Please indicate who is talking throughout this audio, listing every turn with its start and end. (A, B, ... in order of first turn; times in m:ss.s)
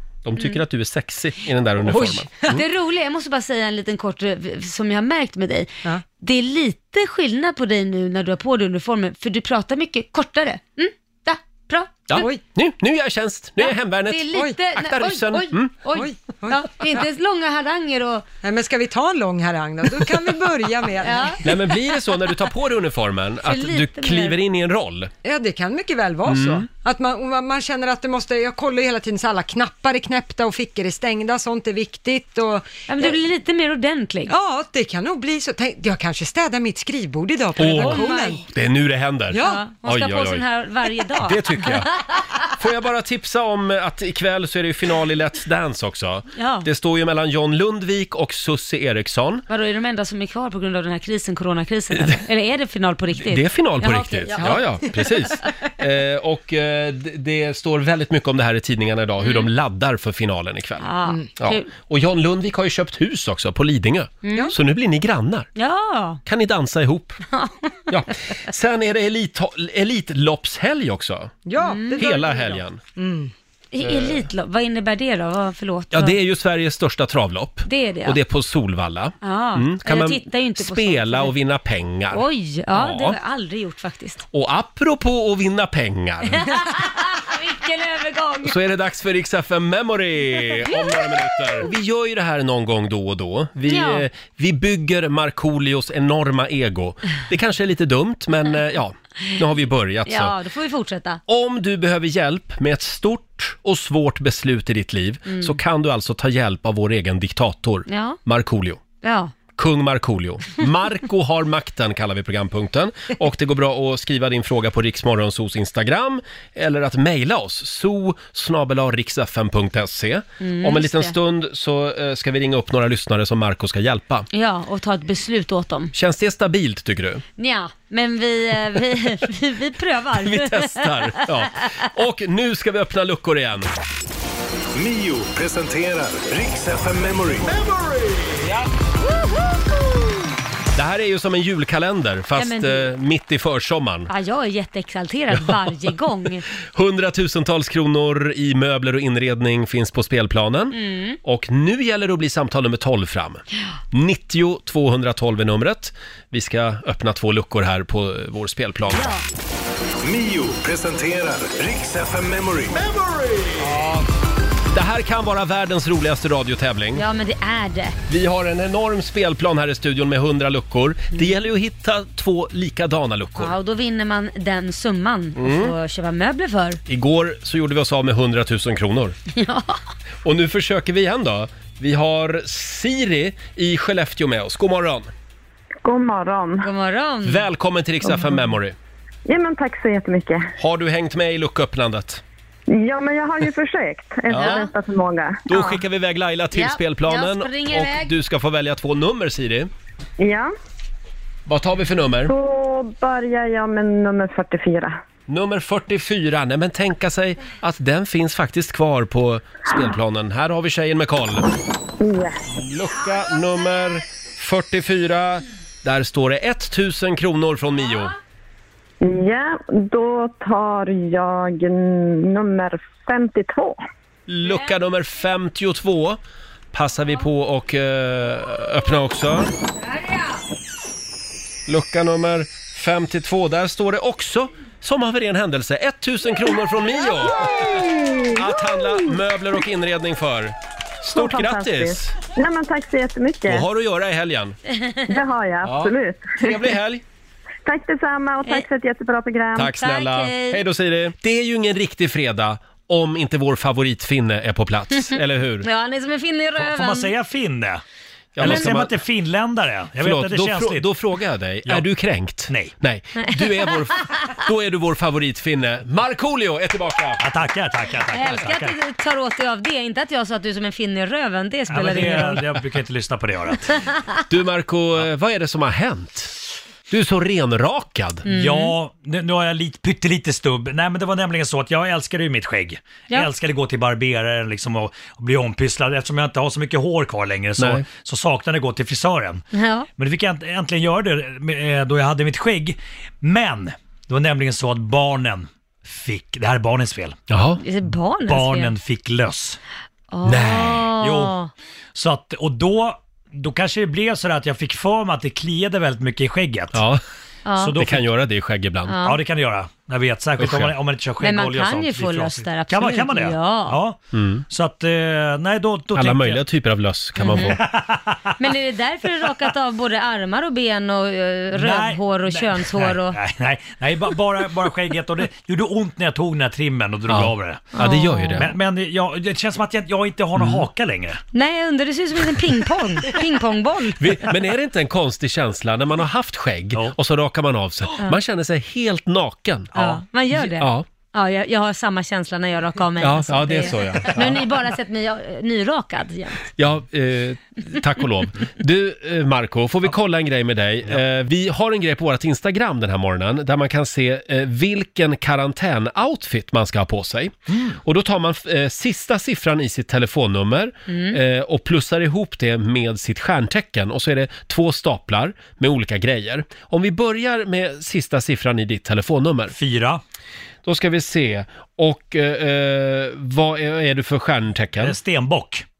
0:00.2-0:02.6 A
0:02.0-0:02.3 B
0:02.4-0:12.3 C
0:12.1-0:15.7 A
0:13.6-0:18.2 C
0:15.9-0:16.7 B
0:18.4-0:21.4 B
0:21.0-0:21.5 C
0:21.4-0:25.1 A
0:23.4-0:24.4 C
0:25.2-0:33.1 B
0:26.3-0:26.6 A
0:32.9-0:34.3 C
0:34.3-0:38.4 B
0:37.6-0:40.4 A
0:37.6-0:38.4 C
0:39.3-0:39.6 B
0:39.4-0:41.8 C
0:41.2-0:41.9 A
0:42.5-0:49.4 A
0:46.3-0:46.6 C
0:49.5-0:54.6 C
0:53.2-1:00.9 A
0:54.3-0:54.7 B
0:59.2-0:59.5 C
1:00.8-1:01.7 C
1:01.4-1:05.5 A
1:04.2-1:04.5 C
1:05.6-1:06.2 C
1:06.2-1:07.2 A
1:07.3-1:07.8 C
1:07.9-1:11.3 A
1:11.4-1:13.3 B
1:11.6-1:12.0 C
1:12.0-1:12.8 A
1:13.7-1:16.1 C
1:13.8-1:14.2 A
1:15.9-1:22.2 A
1:17.6-1:18.2 C
1:19.2-1:21.3 C
1:22.1-1:24.2 C
1:22.7-1:23.2 A
1:24.3-1:26.5 A
1:26.4-1:28.6 C
1:28.4-1:40.3 A
1:30.6-1:31.7 C
1:33.7-1:34.0 C
1:40.1-1:41.2 C
1:41.3-1:48.8 A
1:45.3-1:45.6 C
1:47.9-1:48.2 C
1:49.0-1:49.3 C
1:49.5-2:04.3 A
2:00.4-2:01.1 C
2:04.3-2:05.9 C
2:05.9-2:07.2 A
2:07.4-2:11.3 C
2:10.1-2:13.7 A
2:14.7-2:17.5 D
2:17.6-2:18.6 A
2:20.8-2:24.1 A
2:22.4-2:22.9 C
2:24.1-2:26.4 C
2:26.7-2:39.1 A
2:30.7-2:31.2 C
2:38.9-2:39.2 C
2:40.0-2:42.8 D
2:43.0-2:44.0 A
2:44.7-2:47.0 A
2:46.9-2:48.0 C
2:48.1-2:53.5 A
2:53.4-2:56.8 C
2:55.4-2:55.7 A
2:56.9-2:59.2 A
2:59.3-2:59.8 C
3:00.2-3:05.1 A
3:05.8-3:06.7 E
3:06.6-3:07.4 C
3:07.2-3:08.8 A
3:09.2-3:10.5 E
3:10.6-3:12.2 A
3:12.7-3:15.7 E
3:14.3-3:14.7 A
3:14.4-3:14.7 C
3:15.5-3:19.7 A
3:16.5-3:18.1 C
3:20.2-3:20.5 E
3:21.5-3:22.3 A
3:22.3-3:25.0 E
3:25.3-3:31.5 A
3:32.0-3:32.4 E
3:32.5-3:38.1 A
3:39.0-3:43.8 E
3:44.3-3:46.2 A
3:46.7-3:49.5 A
3:51.7-4:02.1 A
3:57.4-3:58.9 E
4:01.1-4:03.6 E
4:03.5-4:04.6 A
4:05.1-4:06.6 E
4:05.6-4:07.0 A
4:07.6-4:09.7 E
4:09.5-4:15.7 A
4:09.7-4:10.6 C
4:15.6-4:17.1 C
4:16.6-4:17.8 F
4:18.4-4:19.0 A
4:18.4-4:20.9 F
4:18.4-4:18.7 C
4:20.0-4:27.2 A
4:22.5-4:22.7 F
4:23.2-4:23.7 C
4:27.2-4:28.7 F
4:28.1-4:32.6 C
4:31.7-4:33.8 F
4:34.3-4:36.4 A
4:36.9-4:38.2 A
4:38.2-4:38.7 C
4:38.3-4:49.4 F
4:47.6-4:47.8 A
4:49.5-4:49.9 C
4:50.0-4:57.2 F
4:57.3-4:57.6 A
4:57.6-4:58.7 C
4:58.3-4:59.6 F
5:00.1-5:01.5 C
5:00.2-5:00.9 A
5:01.0-5:01.4 F
5:01.9-5:06.8 F
5:06.7-5:07.0 A
5:07.4-5:07.8 C
5:07.6-5:08.0 F
5:07.7-5:09.0 A
5:08.9-5:09.2 C
5:09.0-5:14.0 F
5:10.4-5:10.7 A
5:11.2-5:13.8 C
5:14.1-5:14.4 A
5:14.5-5:16.4 F
5:15.9-5:17.6 A
5:17.2-5:17.6 C
5:17.5-5:18.3 F
5:18.4-5:23.2 C
5:21.5-5:27.8 F
5:27.1-5:28.5 A
5:27.7-5:28.5 C
5:28.4-5:31.2 F
5:30.4-5:30.6 A
5:31.3-5:34.2 C
5:34.0-5:39.8 A
5:39.7-5:40.0 F
5:39.8-5:46.5 C
5:40.5-5:40.8 A
5:43.0-5:44.4 A
5:46.6-6:09.6 A
5:57.5-5:57.8 F
6:00.9-6:01.2 C
6:09.5-6:10.0 F
6:10.6-6:15.0 A
6:14.8-6:15.6 F